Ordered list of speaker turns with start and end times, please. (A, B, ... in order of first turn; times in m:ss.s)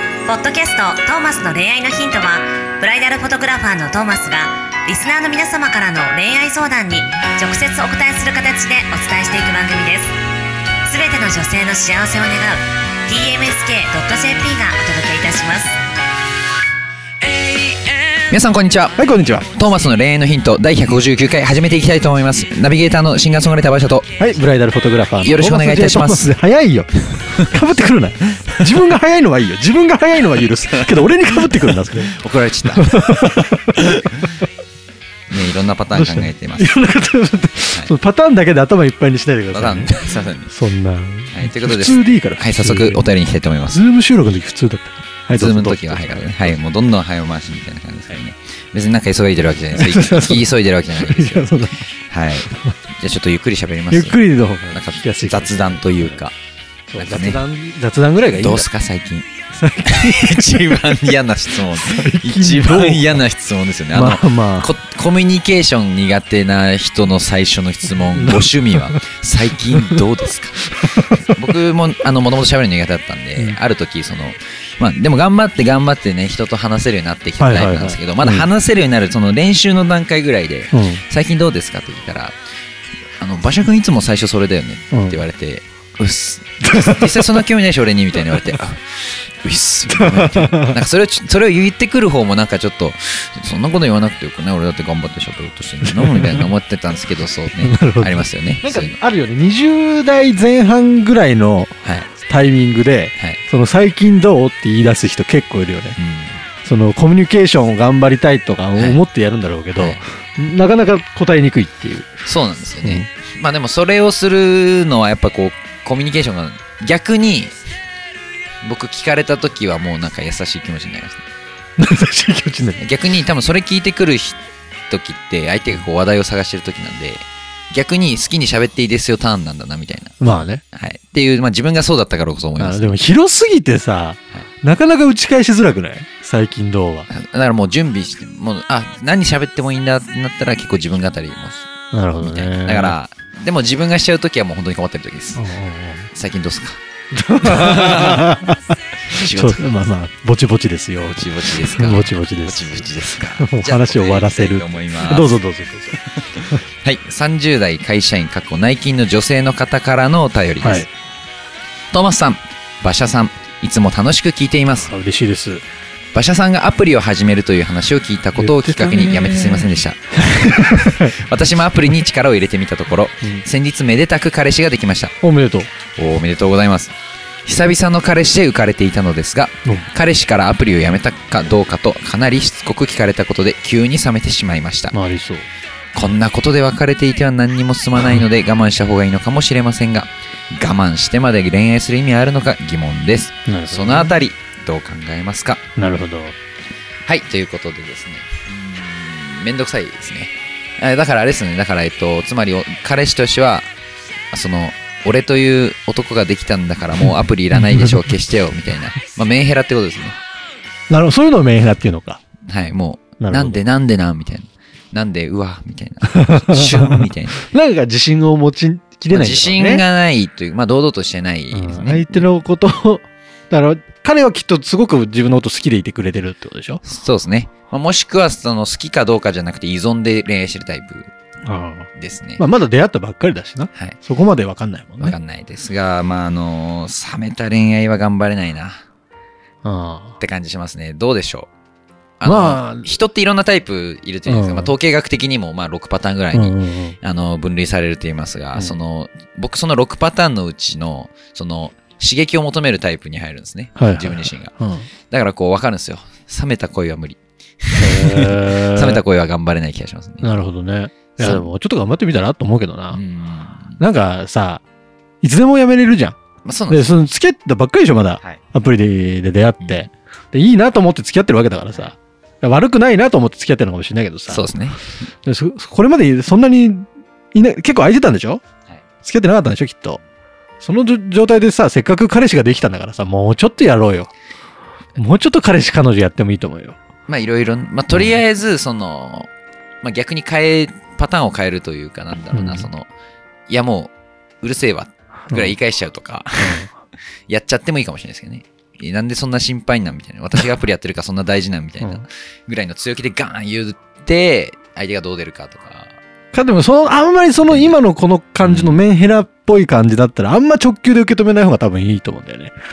0:00.2-0:10.1 A
0:10.8-0:15.7 A
0:17.2-0:19.0 B
0:19.0-0:19.5 C
0:19.5-0:24.1 B
0:24.2-0:32.1 C
0:25.2-0:26.4 B
0:28.7-0:29.0 B
0:30.9-0:34.3 B
0:32.7-0:34.3 C
0:35.3-0:36.8 B
0:35.9-0:43.0 C
0:39.5-0:40.5 B
0:41.3-0:43.8 B
0:43.7-0:46.5 C
0:45.3-0:51.5 B
0:49.7-0:51.9 C
0:52.1-0:54.2 B
0:53.9-0:56.2 C
0:54.7-0:56.3 B
0:56.9-0:58.7 C
0:56.9-0:57.4 B
0:58.4-0:59.3 B
0:59.5-1:00.6 C
0:59.8-1:22.4 B
1:01.7-1:03.2 C
1:03.9-1:04.7 C
1:08.1-1:09.0 C
1:09.7-1:10.0 C
1:17.4-1:18.5 C
1:20.7-1:21.0 C
1:23.2-1:39.0 B
1:24.9-1:25.2 C
1:26.6-1:27.4 C
1:29.9-1:30.8 C
1:35.8-1:36.5 C
1:37.6-1:46.0 C
1:46.0-1:46.4 B
1:46.6-1:52.2 C
1:48.8-1:49.0 B
1:49.8-1:50.0 B
1:52.2-1:57.5 B
1:52.8-1:53.1 C
1:58.6-2:01.3 B
2:01.8-2:02.8 C
2:02.8-2:12.9 B
2:10.2-2:10.6 C
2:12.6-2:17.1 C
2:17.1-2:25.4 B
2:21.9-2:23.0 C
2:25.3-2:26.1 C
2:26.1-2:26.8 B
2:27.1-2:32.8 C
2:27.4-2:28.4 B
2:29.1-2:29.7 B
2:31.1-2:35.4 B
2:33.4-2:36.6 C
2:36.3-2:40.9 B
2:40.6-2:40.9 C
2:41.9-2:44.9 B
2:44.8-2:45.6 C
2:46.1-2:55.2 B
2:48.4-2:49.7 C
2:50.3-2:51.1 C
2:55.2-2:55.7 C
2:56.0-2:56.9 B
2:57.4-3:05.0 B
3:04.9-3:05.5 C
3:05.9-3:15.7 B
3:13.5-3:14.1 C
3:15.8-3:16.4 C
3:17.0-3:23.7 B
3:24.3-3:30.2 B
3:27.5-3:28.0 C
3:30.9-3:32.2 C
3:32.4-3:37.5 B
3:33.2-3:33.6 C
3:36.1-3:39.8 C
3:39.1-3:42.2 B
3:41.5-3:46.8 C
3:46.8-3:51.1 B
3:51.4-3:55.2 C
3:52.0-3:52.4 B
3:55.0-3:58.8 B
3:59.6-4:00.2 C
4:00.2-4:01.5 B
4:02.2-4:14.5 B
4:02.2-4:02.9 C
4:04.2-4:04.7 C
4:06.3-4:07.0 C
4:13.8-4:14.8 C
4:15.1-4:20.3 B
4:17.8-4:19.0 C
4:20.2-4:23.0 C
4:21.2-4:21.5 B
4:22.9-4:23.8 B
4:23.8-4:24.6 C
4:25.2-4:26.2 C
4:26.4-4:26.9 B
4:26.7-4:34.5 C
4:29.6-4:29.9 B
4:34.3-4:34.9 B
4:35.2-4:38.4 C
4:39.0-4:40.0 C
4:40.6-4:44.1 C
4:45.0-4:46.8 C
4:47.1-4:49.3 B
4:47.9-4:48.2 C
4:49.8-4:52.9 B
4:52.3-4:52.7 C
4:53.5-4:56.7 B
4:55.3-4:55.6 C
4:56.4-4:56.7 C
4:57.3-5:06.0 B
5:06.3-5:12.5 C
5:07.5-5:07.7 B
5:08.4-5:08.8 B